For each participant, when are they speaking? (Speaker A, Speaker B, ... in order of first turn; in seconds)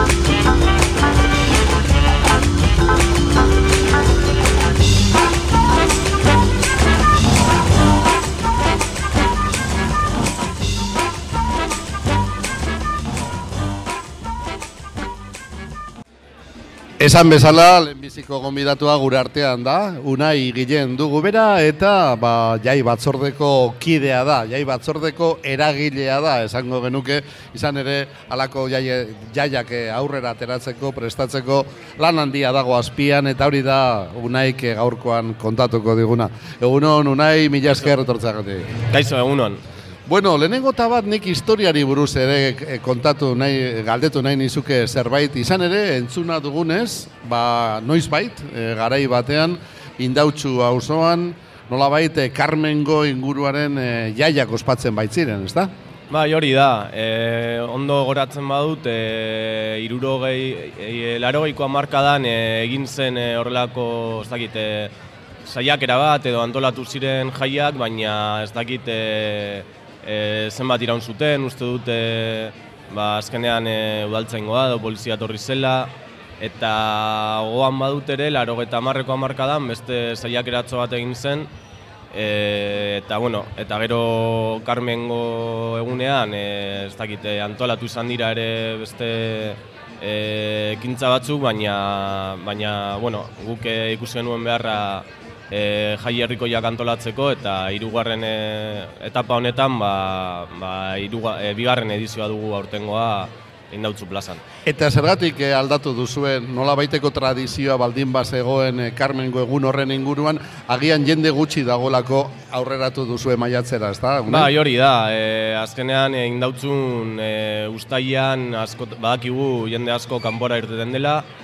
Speaker A: 17.0-38.8, 40.1-55.7, 104.6-114.5
Speaker B: 38.9-39.6, 56.1-64.9, 65.5-81.5, 82.1-104.4, 114.2-121.2